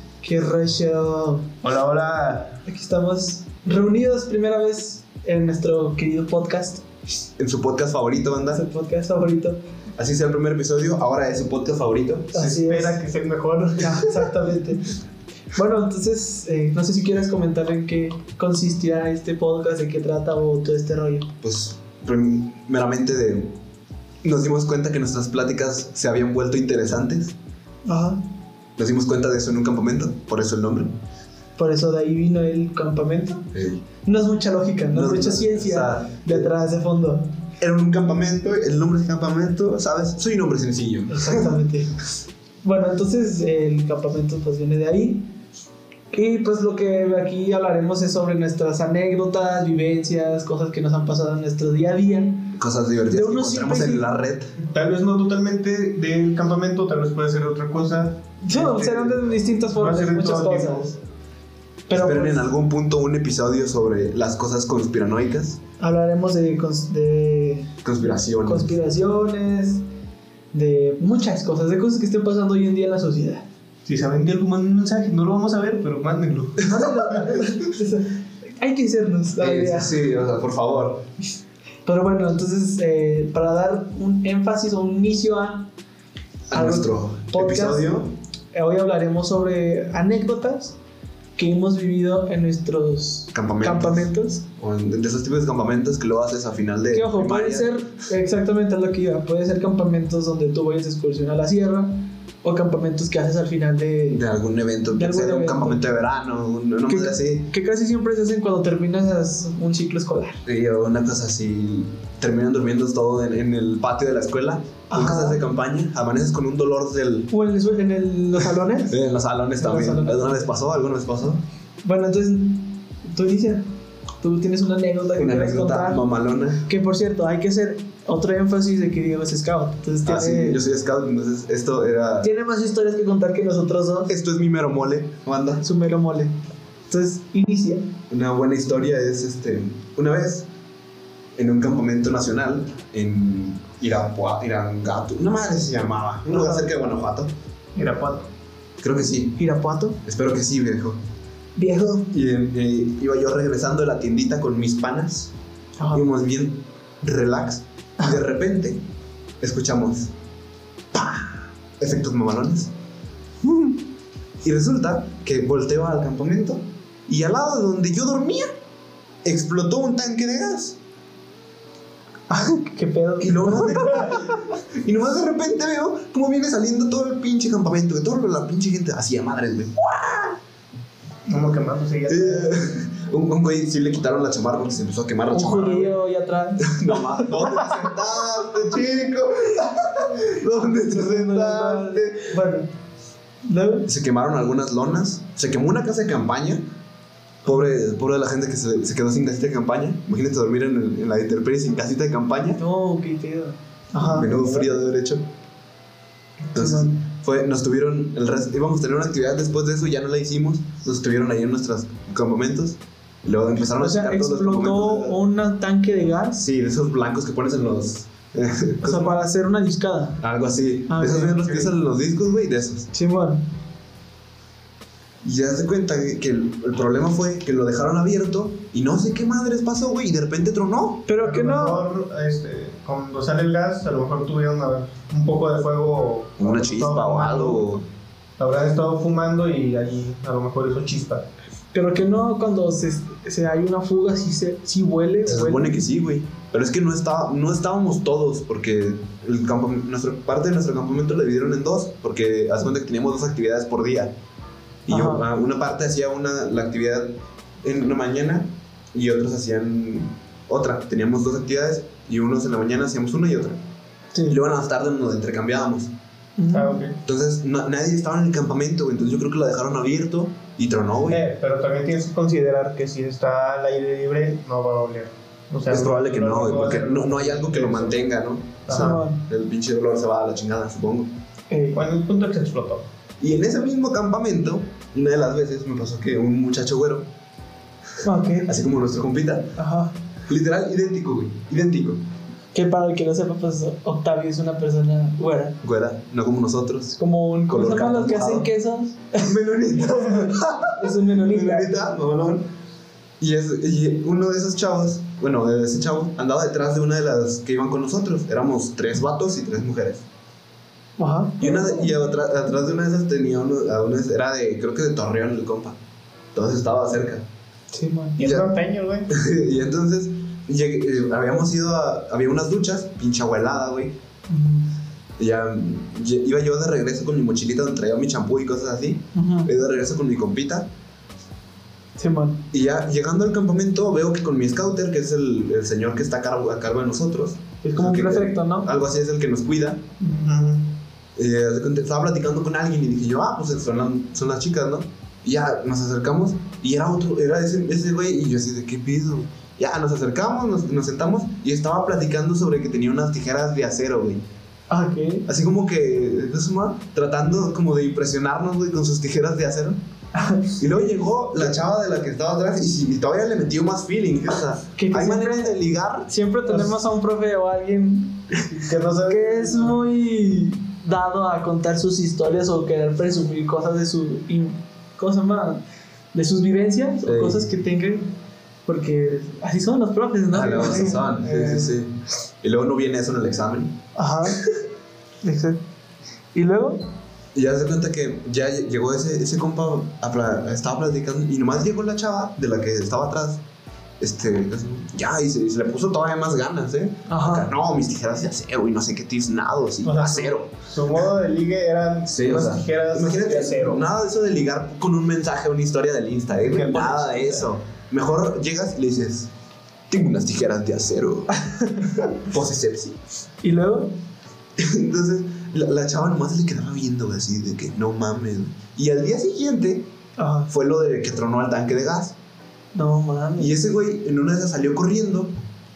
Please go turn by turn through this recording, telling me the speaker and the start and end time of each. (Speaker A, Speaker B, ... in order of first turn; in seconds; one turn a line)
Speaker A: 0.2-1.5
Speaker B: 1.6-2.6
Speaker A: 2.6-6.8
Speaker C: 7.4-8.6
Speaker A: 8.5-9.6
Speaker C: 9.9-12.6
Speaker A: 12.3-13.0
Speaker B: 12.6-14.3
Speaker A: 13.8-14.8
Speaker A: 15.5-21.3
Speaker C: 21.4-23.6
Speaker C: 24.2-27.4
Speaker A: 27.8-28.2
Speaker C: 28.8-30.9
Speaker A: 31.6-33.4
Speaker C: 33.5-33.8
Speaker A: 34.0-37.3
Speaker C: 34.9-36.5
Speaker C: 37.6-41.5
Speaker A: 41.1-42.0
Speaker A: 42.6-45.3
Speaker A: 46.1-52.6
Speaker C: 52.5-54.5
Speaker A: 53.1-54.1
Speaker B: 54.6-61.0
Speaker A: 58.4-60.9
Speaker A: 61.9-62.5
Speaker C: 61.9-65.6
Speaker A: 65.8-67.7
Speaker C: 67.8-68.8
Speaker A: 68.4-69.8
Speaker A: 70.5-73.5
Speaker B: 73.8-76.8
Speaker A: 76.6-80.0
Speaker C: 79.4-81.1
Speaker A: 81.8-85.7
Speaker A: 86.5-88.0
Speaker C: 86.5-88.1
Speaker A: 88.5-90.8
Speaker A: 91.4-94.4
Speaker C: 93.3-97.7
Speaker A: 96.9-104.2
Speaker C: 104.1-107.5
Speaker A: 104.9-105.8
Speaker A: 106.9-110.4
Speaker C: 110.4-117.3
Speaker A: 114.9-115.4
Speaker A: 117.3-118.9
Speaker C: 118.9-121.4
Speaker A: 119.6-120.4
Speaker A: 121.8-123.6
Speaker A: 124.2-126.0
Speaker C: 125.2-126.6
Speaker A: 126.6-130.6
Speaker C: 130.0-132.3
Speaker A: 132.2-134.1
Speaker C: 134.1-135.6
Speaker A: 135.6-136.3
Speaker A: 136.9-137.9
Speaker C: 138.1-140.5
Speaker C: 141.3-147.3
Speaker B: 146.3-146.7
Speaker B: 147.8-148.3
Speaker C: 148.8-149.4
Speaker A: 149.4-150.0
Speaker C: 150.0-151.0
Speaker A: 151.6-152.1
Speaker C: 152.1-155.3
Speaker A: 155.8-156.1
Speaker C: 155.9-158.8
Speaker C: 159.4-160.1
Speaker C: 160.9-162.7
Speaker C: 164.4-168.5
Speaker C: 169.2-170.8
Speaker A: 172.3-174.1
Speaker C: 173.2-180.4
Speaker B: 173.8-174.2
Speaker B: 181.3-182.6
Speaker C: 182.1-186.0
Speaker A: 185.3-187.3
Speaker C: 186.6-192.4
Speaker A: 190.9-192.7
Speaker A: 193.4-193.9
Speaker C: 193.8-196.7
Speaker C: 197.4-202.6
Speaker A: 202.6-204.3
Speaker B: 203.9-204.7
Speaker C: 204.1-205.2
Speaker A: 206.5-207.0
Speaker C: 206.5-215.2
Speaker A: 213.7-216.5
Speaker C: 216.4-219.2
Speaker A: 218.8-220.2
Speaker C: 220.2-222.9
Speaker A: 220.9-221.6
Speaker A: 222.9-223.4
Speaker C: 225.2-231.1
Speaker A: 231.1-231.8
Speaker B: 231.2-237.7
Speaker C: 236.4-237.8
Speaker B: 238.4-241.3
Speaker A: 241.7-245.8
Speaker C: 245.2-254.1
Speaker C: 254.8-263.6
Speaker A: 254.9-255.2
Speaker C: 264.3-265.9
Speaker A: 266.4-266.8
Speaker B: 266.5-267.0
Speaker C: 267.0-271.2
Speaker B: 271.1-278.1
Speaker C: 275.7-281.1
Speaker B: 278.7-279.0
Speaker A: 278.7-279.2
Speaker A: 281.5-281.8
Speaker B: 281.7-282.8
Speaker C: 283.2-287.1
Speaker A: 288.0-288.5
Speaker C: 288.4-289.6
Speaker A: 289.6-289.9
Speaker C: 290.2-292.0
Speaker A: 292.5-295.6
Speaker C: 295.6-296.9
Speaker A: 296.9-299.3
Speaker C: 297.5-298.5
Speaker C: 299.2-302.5
Speaker A: 300.7-301.7
Speaker C: 303.2-310.0
Speaker A: 311.0-311.9
Speaker C: 311.4-315.8
Speaker C: 316.3-317.2
Speaker A: 317.7-318.2
Speaker B: 318.2-319.1
Speaker C: 318.2-318.5
Speaker C: 319.1-323.9
Speaker A: 324.3-324.7
Speaker C: 325.2-330.7
Speaker A: 329.1-329.5
Speaker A: 332.0-332.4
Speaker C: 332.5-339.8
Speaker A: 337.6-338.7
Speaker B: 340.0-340.7
Speaker C: 341.1-354.2
Speaker A: 354.7-355.2
Speaker C: 355.2-359.8
Speaker A: 360.1-360.6
Speaker C: 360.6-366.1
Speaker A: 364.8-365.5
Speaker A: 366.1-368.3
Speaker B: 366.5-366.8
Speaker B: 368.5-369.8
Speaker A: 369.1-375.6
Speaker A: 376.1-378.1
Speaker C: 377.1-377.5
Speaker A: 378.7-381.3
Speaker C: 380.3-383.8
Speaker B: 380.6-381.7
Speaker A: 383.9-384.4
Speaker A: 385.2-385.6
Speaker A: 386.3-386.8
Speaker C: 387.3-393.4
Speaker C: 394.0-400.5
Speaker A: 397.1-397.5
Speaker B: 399.8-403.8
Speaker C: 402.1-409.3
Speaker B: 406.5-407.5
Speaker C: 409.9-411.3
Speaker C: 412.2-413.0
Speaker A: 413.4-413.9
Speaker C: 414.6-419.9
Speaker A: 420.2-420.5
Speaker C: 420.5-422.1
Speaker A: 422.7-423.6
Speaker C: 423.4-425.3